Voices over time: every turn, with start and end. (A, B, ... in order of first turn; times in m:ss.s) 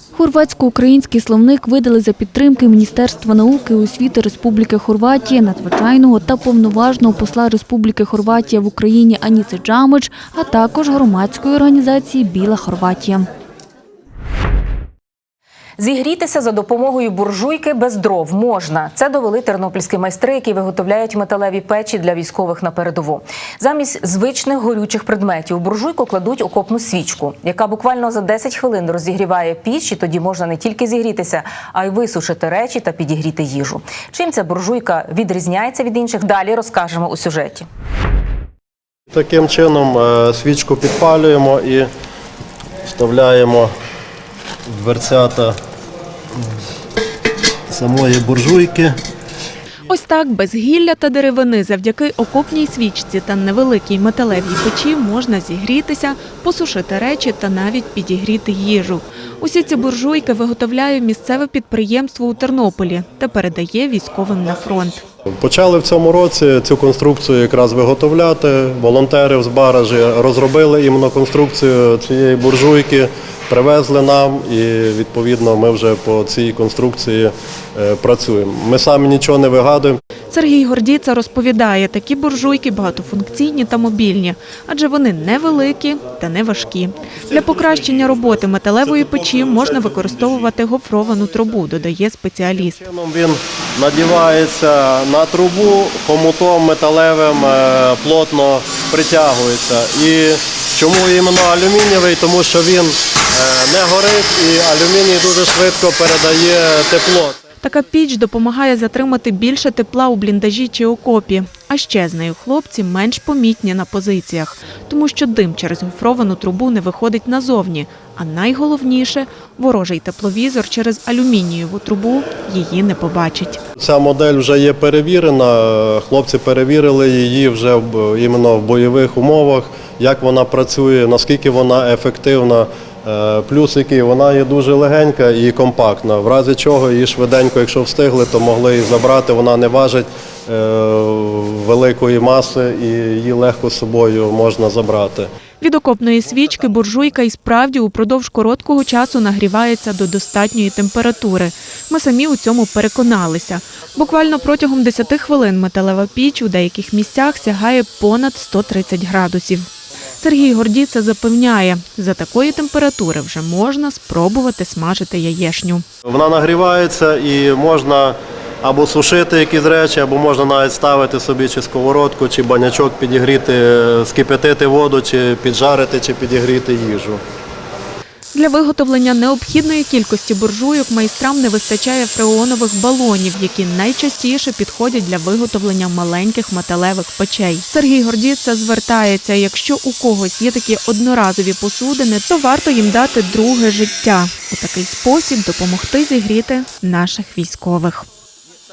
0:00.2-0:13.2 A
0:15.8-0:37.7 B
0:39.1-0:41.9 C
0:42.9-0:43.7 C
0:44.7-0:45.6 C
0:47.7-0:48.9 C
0:49.9-1:05.0 D
1:05.4-1:20.0 C
1:20.3-1:32.8 D
1:32.6-1:47.4 C
1:47.6-2:03.6 D
2:03.8-2:25.3 C
2:25.6-2:39.7 D
2:40.2-2:45.8 D
2:46.0-2:57.2 C
2:58.3-3:18.0 D